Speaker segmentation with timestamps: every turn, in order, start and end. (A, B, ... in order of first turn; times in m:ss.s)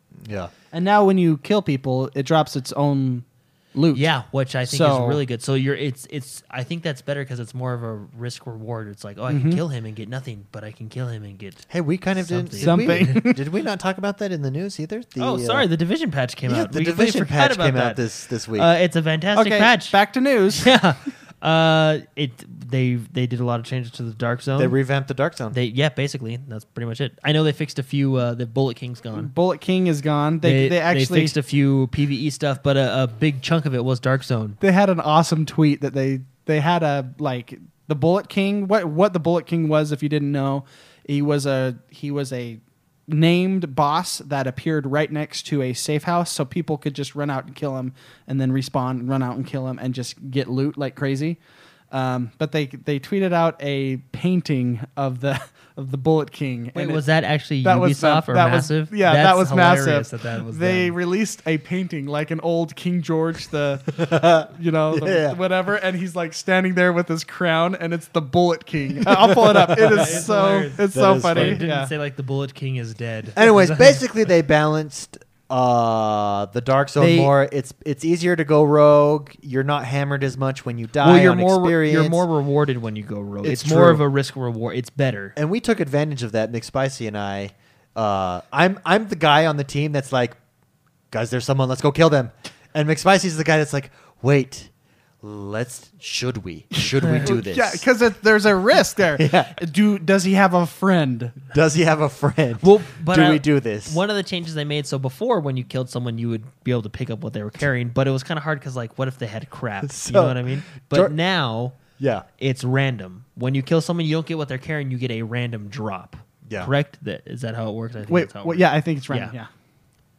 0:00.2-0:00.5 A
0:00.7-0:04.1 B
0:03.9-0:13.2 C
0:04.7-0:05.2 B
0:09.3-0:09.6 B
0:11.7-0:15.7 A
0:12.6-0:13.4 B
0:15.2-0:20.0 C
0:16.5-0:18.7 A
0:19.4-0:20.7 B
0:20.6-0:24.7 C
0:24.6-0:25.6 A
0:25.5-0:29.3 C
0:29.1-0:31.4 B
0:30.4-0:34.6 C
0:34.6-0:51.4 B
0:51.9-0:57.0 B
0:56.7-1:01.0 C
0:57.6-1:11.9 B
1:04.0-1:05.4 A
1:09.0-1:10.3 A
1:09.9-1:14.0 C
1:10.9-1:11.6 A
1:13.4-1:22.2 A
1:17.0-1:17.3 C
1:21.0-1:25.4 C
1:23.4-1:24.0 A
1:25.4-1:30.4 A
1:31.1-1:37.8 A
1:37.0-1:37.3 C
1:37.2-1:41.4 B
1:39.2-1:39.6 A
1:41.5-1:44.0 A
1:42.6-1:51.8 C
1:49.8-1:51.2 A
1:52.0-1:52.3 A
1:52.4-1:59.3 C
1:58.1-1:59.5 B